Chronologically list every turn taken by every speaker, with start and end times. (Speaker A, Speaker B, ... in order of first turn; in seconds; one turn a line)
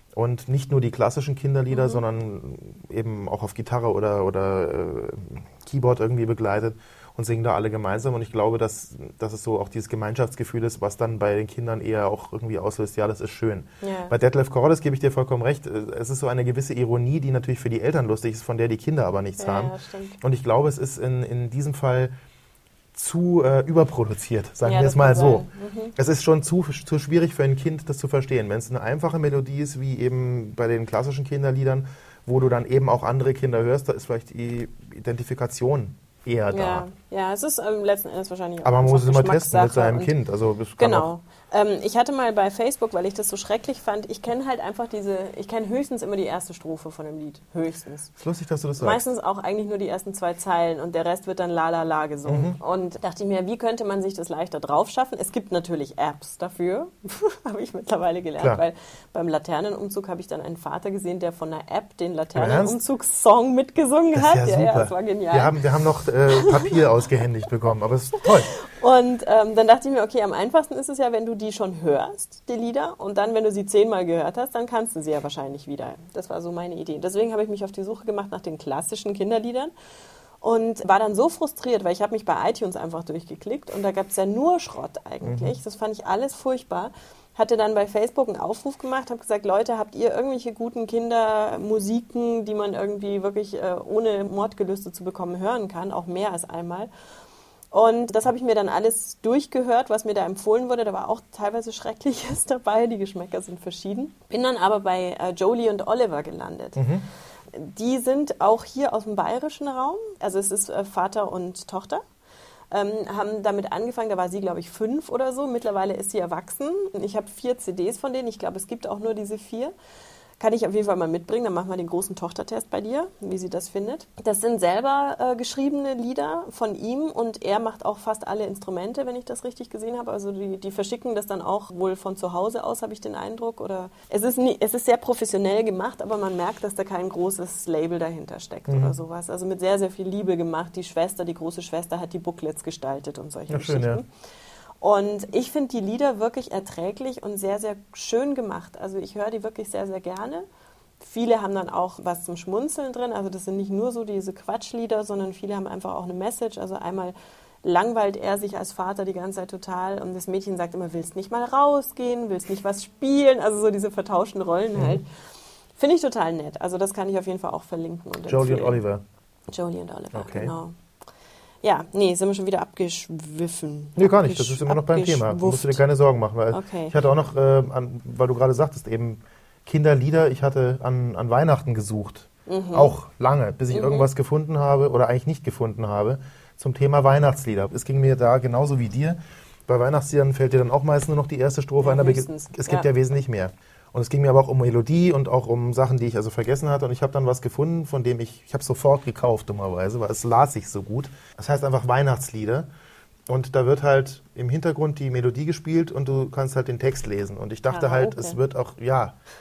Speaker A: 0.1-22.1
Speaker B: 1.7-2.0
Speaker B: 13.8-14.1
Speaker B: 19.4-20.2
Speaker A: 22.9-36.9
Speaker B: 24.6-25.9
Speaker B: 36.5-40.1
Speaker A: 38.6-41.1
Speaker B: 40.8-48.1
Speaker A: 48.2-49.0
Speaker B: 48.8-65.5
Speaker A: 52.3-52.6
Speaker A: 62.3-62.8
Speaker A: 64.1-68.5
Speaker B: 66.3-66.8
Speaker B: 68.5-79.7
Speaker B: 80.4-96.9
Speaker A: 85.2-85.5
Speaker B: 97.7-106.8
Speaker A: 106.8-107.0
Speaker B: 107.5-112.0
Speaker B: 112.7-119.7
Speaker B: 120.4-144.1
Speaker A: 138.7-138.9
Speaker A: 143.5-144.0
Speaker B: 144.8-150.4
Speaker B: 151.0-165.1
Speaker A: 164.8-165.0
Speaker B: 165.8-168.8
Speaker A: 168.3-169.0
Speaker B: 169.5-170.8
Speaker A: 170.1-170.5
Speaker B: 171.6-175.8
Speaker A: 174.0-202.7
Speaker B: 176.5-176.9
Speaker B: 182.5-182.9
Speaker B: 183.7-184.1
Speaker B: 191.8-192.9
Speaker A: 203.3-209.2
Speaker B: 207.7-208.4